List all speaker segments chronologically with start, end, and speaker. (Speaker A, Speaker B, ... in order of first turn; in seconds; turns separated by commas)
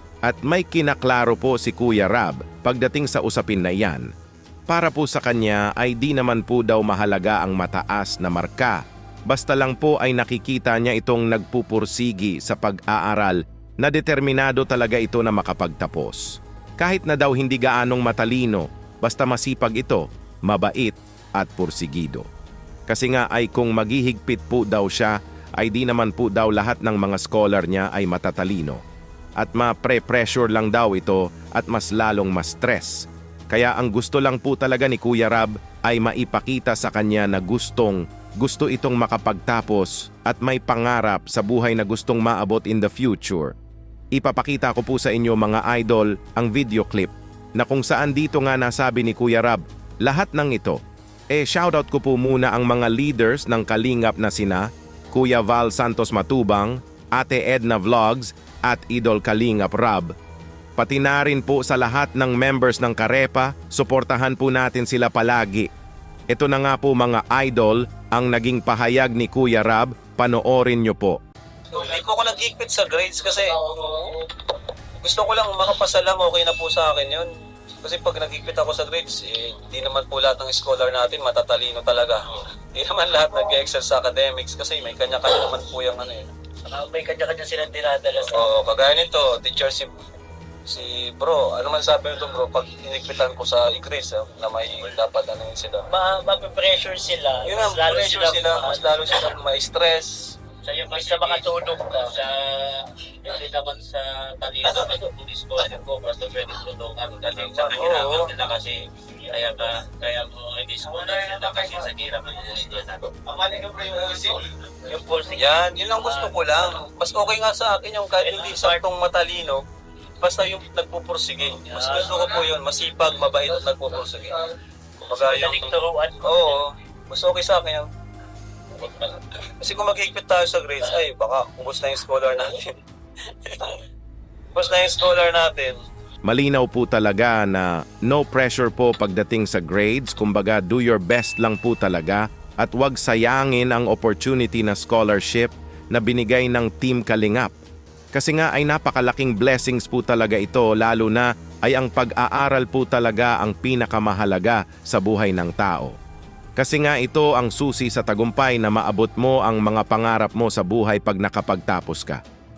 Speaker A: 0.2-4.1, Speaker A: 4.7-22.3, Speaker A: 22.9-28.8, Speaker A: 29.4-43.5, Speaker A: 44.1-50.8, Speaker A: 51.3-60.1, Speaker A: 60.8-65.7, Speaker A: 66.3-71.2, Speaker B: 71.7-74.3, Speaker B: 75.0-77.3, Speaker B: 77.8-86.3, Speaker C: 86.6-88.4, Speaker B: 88.3-89.9, Speaker B: 90.7-95.9, Speaker C: 95.9-99.2, Speaker B: 97.4-100.4, Speaker C: 100.6-113.6, Speaker B: 101.0-101.4, Speaker B: 107.7-108.4, Speaker B: 113.2-114.5, Speaker C: 114.8-116.5, Speaker B: 115.3-119.6, Speaker C: 118.2-118.7, Speaker B: 120.2-127.9, Speaker C: 121.7-122.0, Speaker C: 125.2-126.6, Speaker B: 128.8-133.8, Speaker B: 134.5-135.8, Speaker A: 136.2-147.5, Speaker A: 148.1-155.9, Speaker A: 156.6-162.2